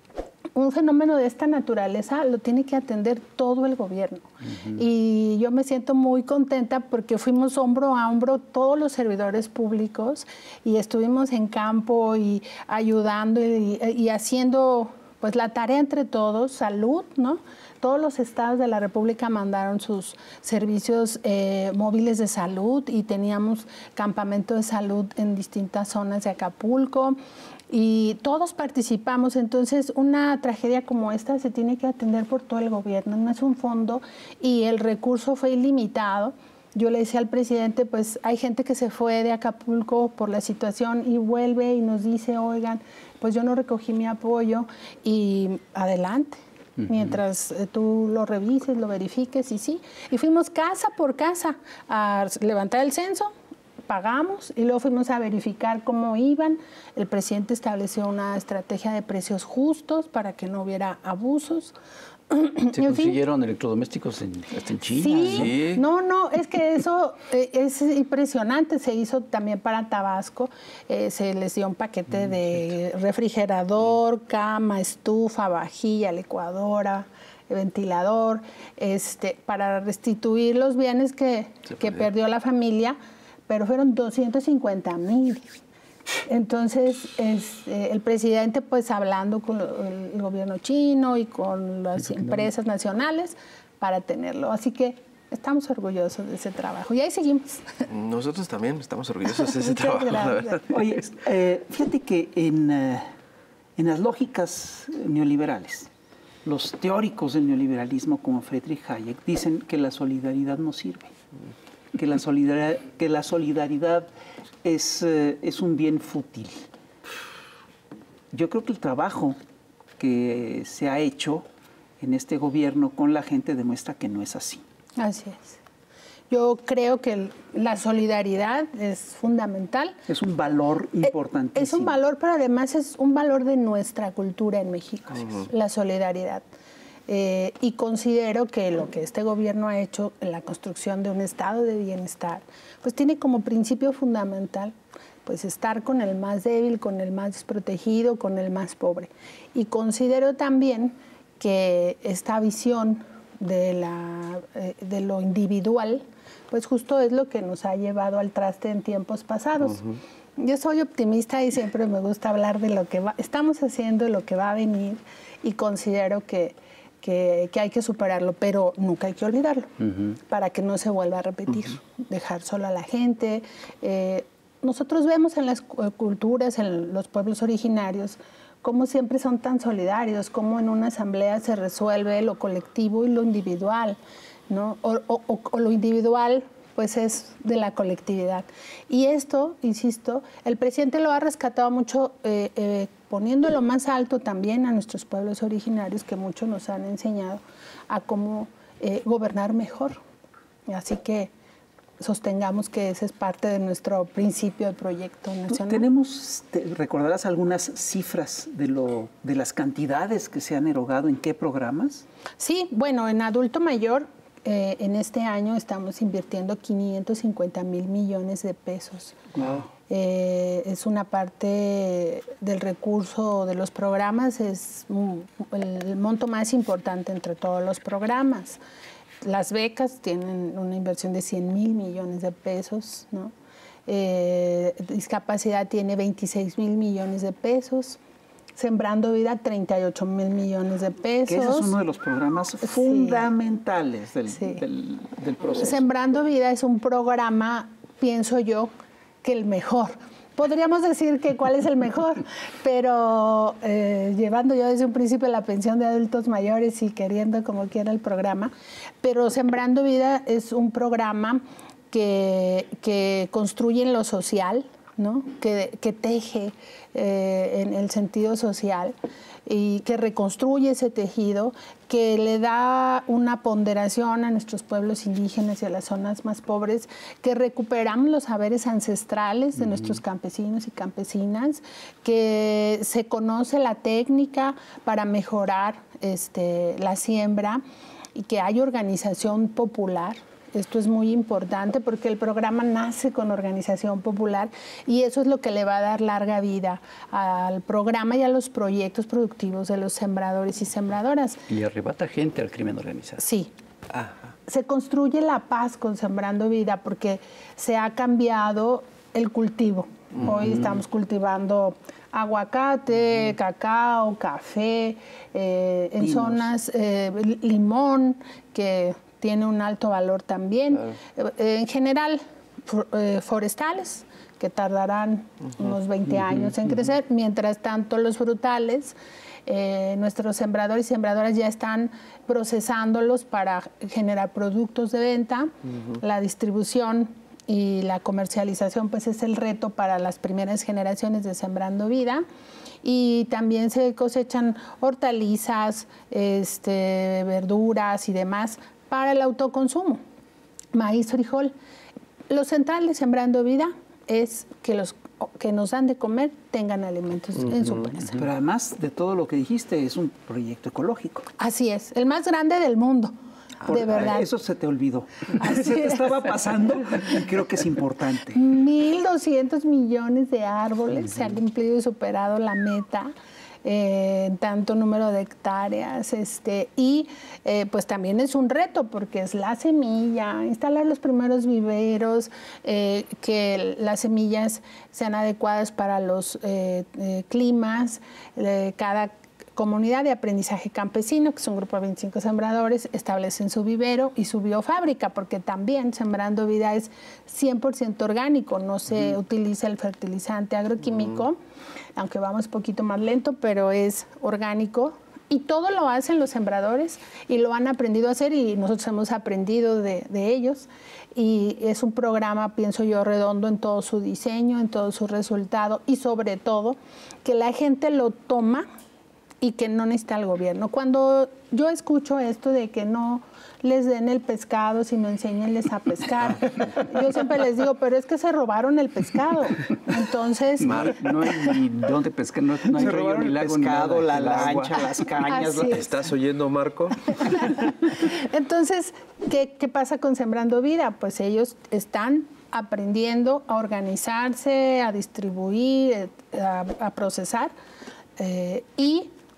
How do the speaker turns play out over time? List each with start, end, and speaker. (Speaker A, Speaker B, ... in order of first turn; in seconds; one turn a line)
Speaker A: 0.5-27.2
Speaker A: 27.7-53.3
Speaker A: 53.9-61.7
Speaker A: 62.3-63.1
Speaker B: 62.7-65.5
Speaker A: 65.0-83.0
Speaker C: 65.3-65.8
Speaker A: 83.5-85.4
Speaker A: 86.3-97.8
Speaker B: 92.1-92.4
Speaker C: 97.8-100.6
Speaker A: 99.4-100.7
Speaker D: 100.7-103.1
Speaker D: 103.8-105.9
Speaker D: 106.4-111.1
Speaker D: 111.9-114.1
Speaker D: 114.6-116.6
Speaker D: 118.3-119.4
Speaker D: 120.0-121.4
Speaker D: 122.0-124.6
Speaker A: 125.0-125.6
Speaker A: 126.3-129.9
Speaker D: 130.1-132.0
Speaker A: 131.0-136.4
Speaker A: 137.1-184.0
Speaker A: 184.5-200.0
Speaker A: 200.7-201.3
Speaker A: 202.0-205.8
Speaker D: 205.5-212.0
Speaker A: 212.4-219.2
Speaker D: 219.3-219.7
Speaker A: 219.9-228.6
Speaker A: 229.2-233.3
Speaker A: 233.9-238.0
Speaker A: 238.6-241.7
Speaker D: 241.3-245.8
Speaker A: 242.7-243.3
Speaker A: 244.3-244.6
Speaker A: 245.6-248.7
Speaker A: 249.2-258.5
Speaker A: 259.0-268.9
Speaker A: 269.4-287.6
Speaker A: 288.1-301.4
Speaker B: 301.5-303.2
Speaker A: 303.2-303.5
Speaker A: 304.5-342.2
Speaker A: 342.8-350.0
Speaker A: 350.7-351.5
Speaker A: 352.3-358.2
Speaker D: 358.1-361.3
Speaker A: 361.4-363.1
Speaker D: 363.6-368.4
Speaker A: 363.6-364.3
Speaker A: 365.4-366.2
Speaker A: 368.3-373.1
Speaker A: 373.6-401.4
Speaker A: 402.0-418.7
Speaker A: 419.4-430.9
Speaker B: 430.6-434.8
Speaker C: 430.6-430.9
Speaker D: 432.7-435.8
Speaker A: 435.2-435.9
Speaker C: 435.6-437.4
Speaker A: 437.2-447.5
Speaker A: 448.2-449.1